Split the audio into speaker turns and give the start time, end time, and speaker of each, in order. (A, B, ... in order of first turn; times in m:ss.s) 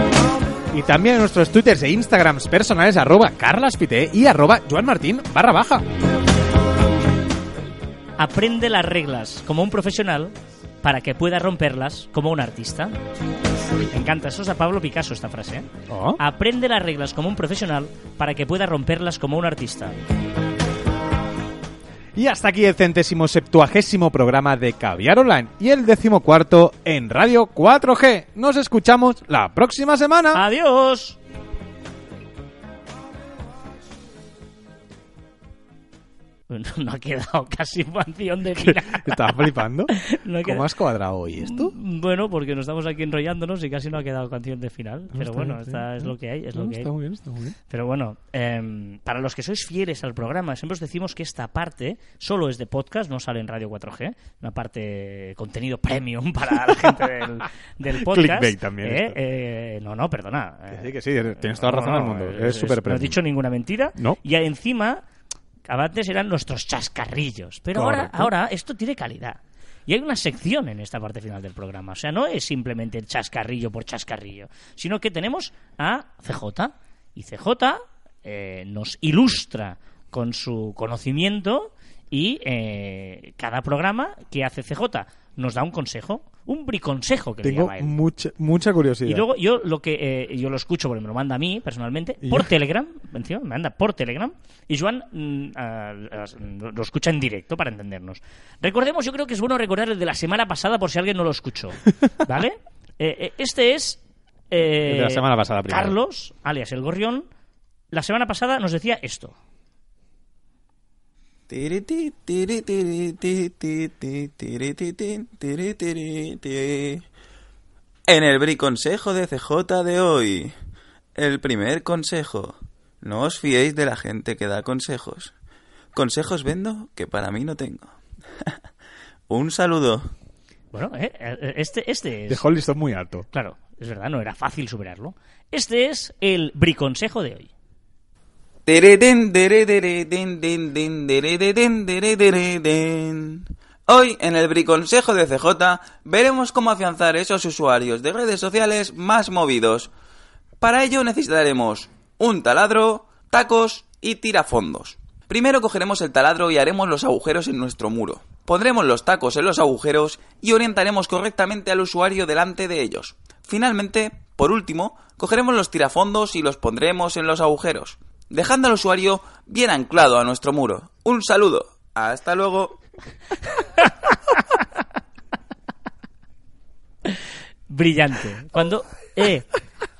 0:00.7-0:05.8 A
0:08.2-0:13.0 B
0:13.9-0:15.7 B
0:15.9-0:16.2 A
0:16.2-0:20.0 B
0:22.2-0:30.4 A
0:30.3-0:31.2 B
0:36.5-0:40.6 B
0:38.6-0:41.7 A
0:41.4-0:46.9 B
0:45.1-0:47.6 A
0:47.7-1:05.0 B
0:57.9-0:59.2 A
1:00.7-1:03.2 A
1:05.7-1:27.9 B
1:07.7-1:08.3 A
1:27.4-1:29.2 A
1:29.0-1:47.3 B
1:32.2-1:32.5 A
1:44.8-1:45.9 A
1:47.9-1:49.3 B
1:51.5-1:57.0 C
1:58.1-2:00.5 C
2:01.2-2:05.3 C
2:05.9-2:07.9 C
2:09.3-2:10.1 C
2:10.7-2:12.4 B
2:12.3-2:13.2 A
2:13.3-2:17.5 B
2:18.6-2:29.9 C
2:30.6-2:52.8 C
2:57.7-2:59.5 B